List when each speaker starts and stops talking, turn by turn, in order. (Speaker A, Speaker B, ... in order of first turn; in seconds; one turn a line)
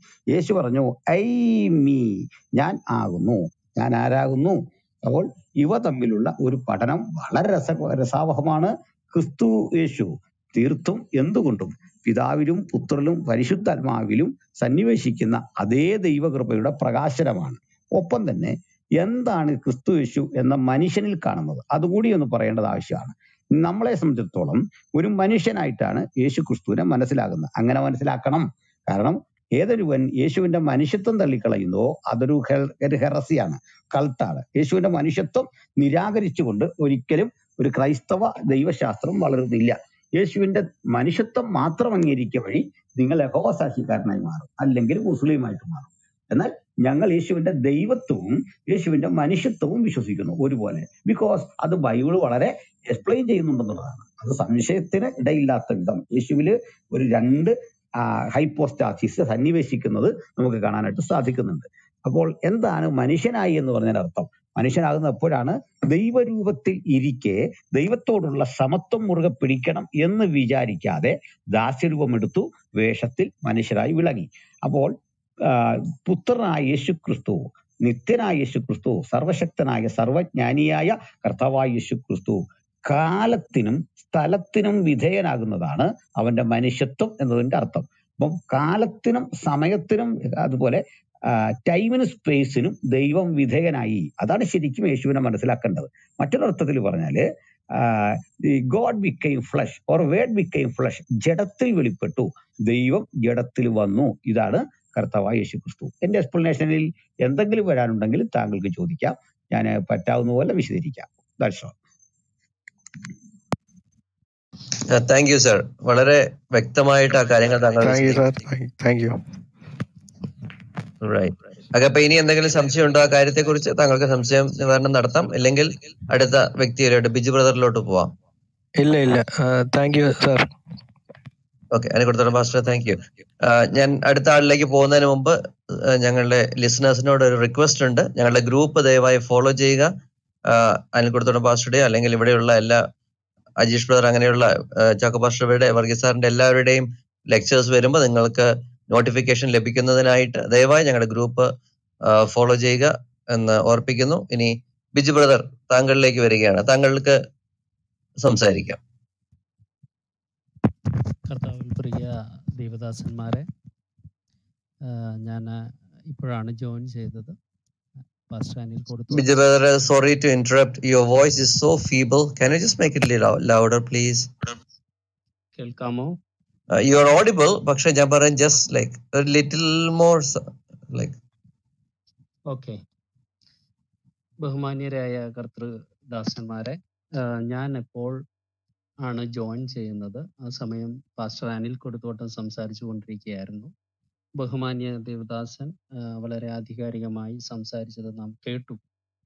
Speaker A: 0.3-57.5
Speaker A: 58.3-74.9
Speaker A: 75.5-90.8
Speaker A: 91.7-97.2
Speaker A: 97.8-98.1
Speaker A: 98.7-111.7
Speaker B: 114.9-118.2
Speaker C: 118.1-119.1
Speaker B: 121.0-128.1
Speaker C: 128.8-130.5
Speaker B: 131.7-135.3
Speaker B: 135.9-139.9
Speaker B: 140.5-142.8
Speaker B: 143.6-151.5
Speaker B: 152.1-157.2
Speaker B: 158.2-158.8
Speaker D: 161.3-163.5
Speaker D: 164.8-165.5
Speaker D: 166.1-167.3
Speaker D: 168.3-169.3
Speaker B: 169.1-174.3
Speaker D: 175.6-176.2
Speaker B: 176.7-181.1
Speaker D: 182.5-182.8
Speaker D: 184.4-188.2
Speaker D: 189.0-193.7
Speaker D: 194.4-198.8